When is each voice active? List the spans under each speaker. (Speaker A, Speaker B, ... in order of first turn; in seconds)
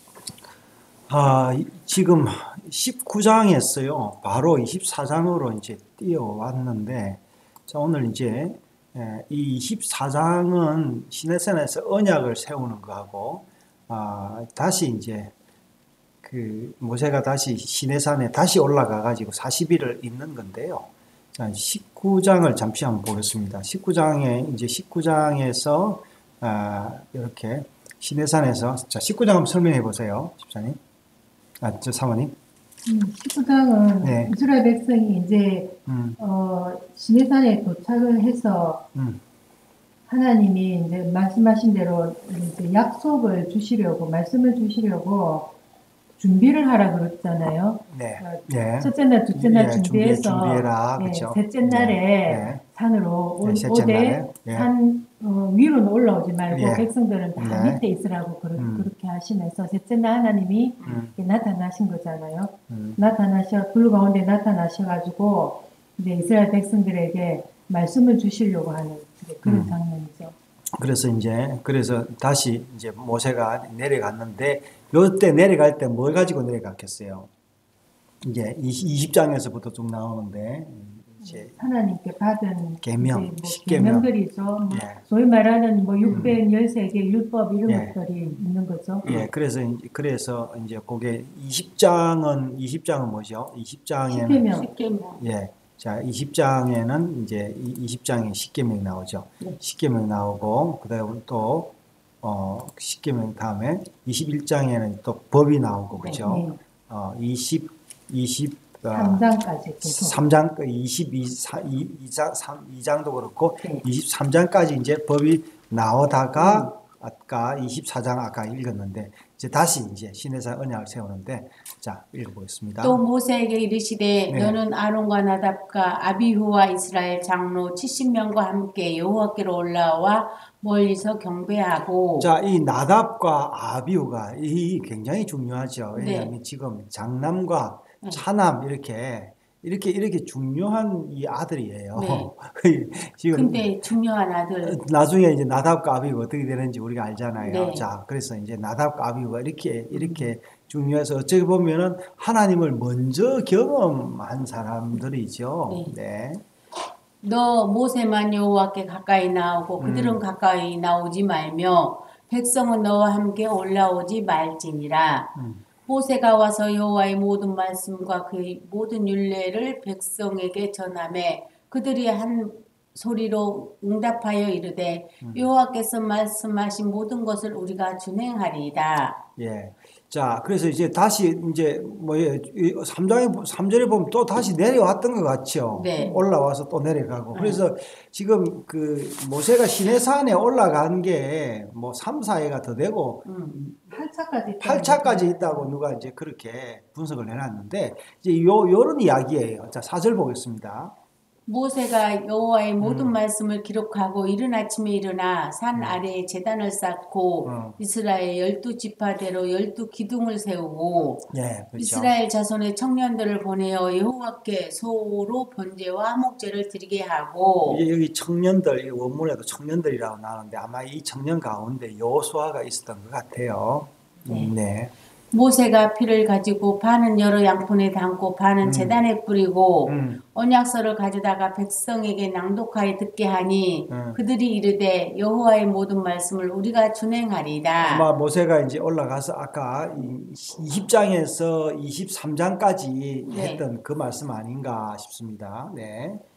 Speaker A: 1.1-15.3, 16.2-30.8, 31.6-32.3, 34.0-34.3, 35.9-36.2, 38.9-39.2, 47.9-52.6, 53.4-54.7, 56.5-57.8, 58.5-58.9, 60.8-61.1, 62.7-63.0, 69.4-69.7, 70.7-77.3, 78.2-81.5, 82.8-84.1, 84.7-85.0, 86.1-86.4, 87.7-88.0, 89.0-94.5, 95.2-109.2, 109.8-123.0, 124.3-124.6, 132.2-143.7, 144.6-156.4, 159.8-160.2, 165.3-165.6, 175.2-175.5, 179.4-193.9, 194.6-200.9, 202.8-203.2, 205.7-206.0, 207.4-207.8, 211.3-212.1, 217.6-224.9, 228.6-229.0, 229.8-230.2, 233.9-234.2, 237.8-246.2
Speaker B: 32.9-38.8, 40.1-45.6, 46.2-70.3, 81.2-89.1, 94.1-94.7, 106.2-106.6, 108.9-110.2, 193.9-195.7
Speaker C: 86.0-86.3, 94.5-95.2, 106.0-106.4, 116.3-116.7, 122.8-132.3, 135.9-136.3, 141.9-142.3, 143.3-144.8, 147.4-147.9, 149.9-150.3, 155.7-155.9, 157.2-165.3, 165.9-179.2, 185.7-186.2, 187.3-187.6, 193.2-193.6, 201.5-217.8, 224.3-224.5, 225.3-238.1, 243.3-243.6